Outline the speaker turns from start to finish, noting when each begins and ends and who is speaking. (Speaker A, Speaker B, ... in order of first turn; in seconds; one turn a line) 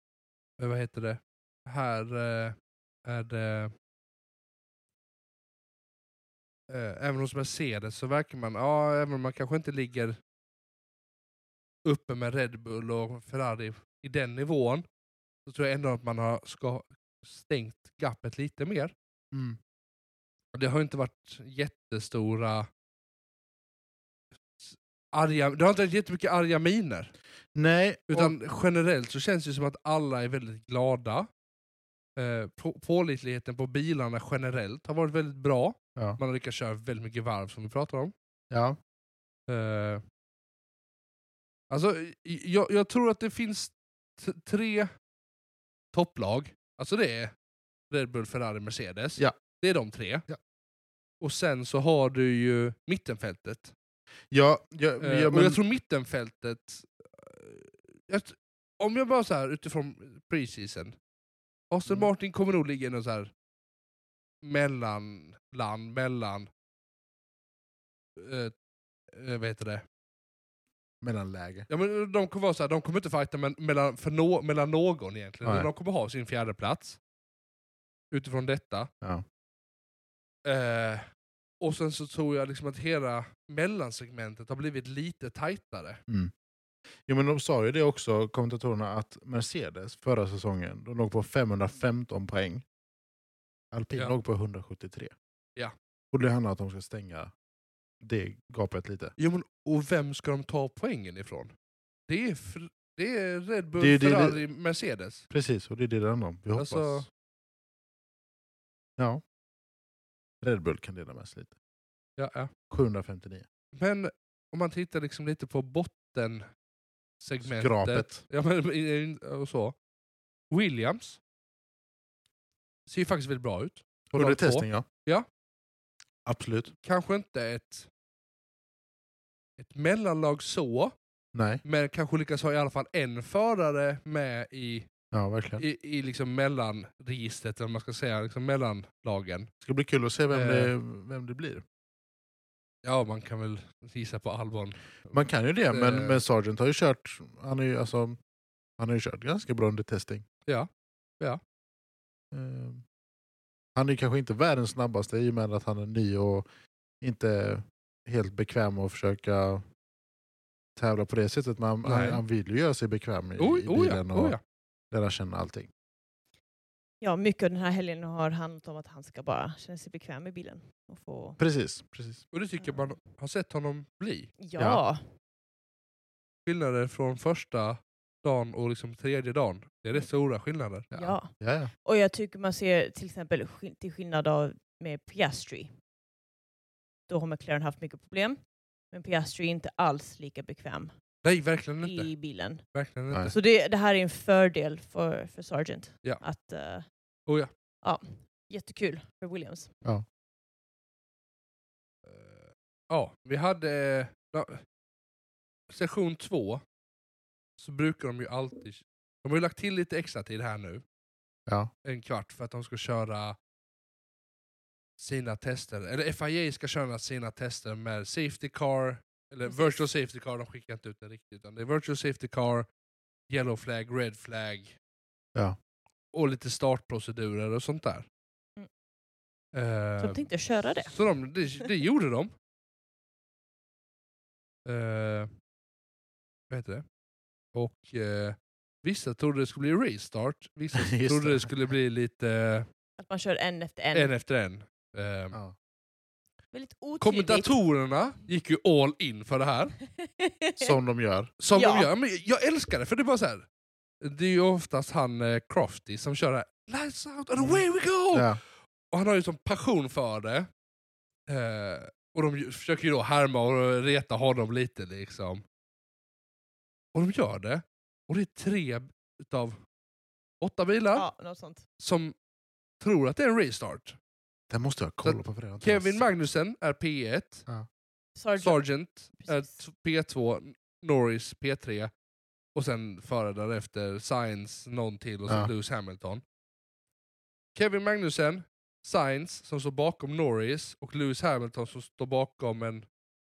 Speaker A: 0.6-3.7
Speaker A: 6.7-10.2
Speaker A: 11.8-14.8
Speaker A: 15.4-18.9
Speaker B: 19.3-19.6
Speaker A: 20.5-22.7
Speaker A: 24.6-27.1
Speaker B: 27.5-28.3
Speaker A: 28.1-31.3
Speaker A: 32.1-38.1
Speaker B: 38.5-38.8
Speaker A: 39.5-40.0
Speaker A: 41.7-44.9
Speaker A: 45.9-47.3
Speaker A: 47.9-50.2
Speaker A: 51.2-53.7
Speaker B: 54.3-55.6
Speaker A: 55.0-61.0
Speaker A: 61.7-63.3
Speaker A: 64.4-66.5
Speaker A: 68.2-68.5
Speaker A: 69.1-69.8
Speaker B: 71.0-71.7
Speaker A: 71.7-77.0
Speaker B: 75.4-75.7
Speaker A: 78.1-78.9
Speaker A: 80.4-81.0
Speaker A: 81.6-86.0
Speaker B: 87.1-92.6
Speaker B: 93.7-95.1
Speaker B: 96.1-97.3
Speaker B: 98.0-99.1
Speaker A: 99.2-101.5
Speaker A: 102.1-105.2
Speaker B: 103.8-104.4
Speaker B: 105.3-107.0
Speaker A: 106.5-107.0
Speaker B: 110.4-111.5
Speaker A: 112.2-112.5
Speaker B: 112.7-113.5
Speaker A: 113.7-116.4
Speaker A: 117.2-119.7
Speaker B: 117.4-118.2
Speaker A: 120.5-121.2
Speaker A: 122.9-125.2
Speaker B: 124.1-124.8
Speaker B: 126.2-126.7
Speaker A: 126.8-127.9
Speaker A: 129.6-130.9
Speaker B: 131.3-131.6
Speaker A: 131.6-134.9
Speaker B: 135.1-135.6
Speaker A: 135.6-139.5
Speaker B: 139.6-141.6
Speaker A: 140.3-140.7
Speaker A: 142.8-145.1
Speaker B: 145.1-148.2
Speaker A: 145.7-146.2
Speaker B: 148.8-150.2
Speaker B: 152.3-152.8
Speaker B: 153.7-156.4
Speaker B: 157.0-159.6
Speaker B: 160.8-164.4
Speaker A: 161.8-162.2
Speaker A: 163.4-164.4
Speaker B: 164.9-165.7
Speaker C: 167.0-171.4
Speaker B: 171.4-172.2
Speaker A: 172.3-174.3
Speaker C: 172.6-172.9
Speaker C: 174.4-175.0
Speaker B: 174.6-174.8
Speaker A: 176.4-180.9
Speaker C: 180.9-181.3
Speaker B: 181.0-181.7
Speaker C: 181.8-185.7
Speaker C: 187.1-188.4
Speaker C: 188.9-190.9
Speaker A: 191.2-192.1
Speaker C: 191.8-192.6
Speaker A: 192.7-193.3
Speaker C: 193.3-196.8
Speaker C: 197.8-199.7
Speaker A: 202.0-204.6
Speaker A: 205.7-206.6
Speaker A: 207.6-210.8
Speaker A: 211.8-213.4
Speaker A: 215.0-222.7
Speaker C: 219.5-219.8
Speaker A: 223.3-224.8
Speaker A: 226.1-228.1
Speaker A: 229.5-230.2
Speaker C: 230.0-230.9
Speaker A: 230.8-232.3
Speaker A: 234.6-235.3
Speaker A: 236.5-236.8
Speaker A: 237.5-242.7
Speaker B: 240.7-241.5
Speaker C: 243.0-244.1
Speaker A: 243.9-245.4
Speaker C: 246.5-247.5
Speaker A: 247.0-249.8
Speaker C: 250.0-250.8
Speaker B: 250.6-251.3
Speaker A: 251.4-253.4
Speaker C: 251.5-251.9
Speaker A: 254.0-258.4
Speaker B: 257.4-258.4
Speaker A: 258.9-260.5
Speaker A: 261.3-265.4
Speaker A: 266.9-269.6
Speaker A: 270.4-271.1
Speaker C: 270.9-271.6
Speaker A: 271.8-272.1
Speaker A: 272.8-273.9
Speaker B: 274.5-276.0
Speaker A: 275.0-277.4
Speaker C: 278.1-278.6
Speaker A: 278.4-281.9
Speaker C: 279.2-279.5
Speaker A: 282.5-286.2
Speaker A: 287.5-292.8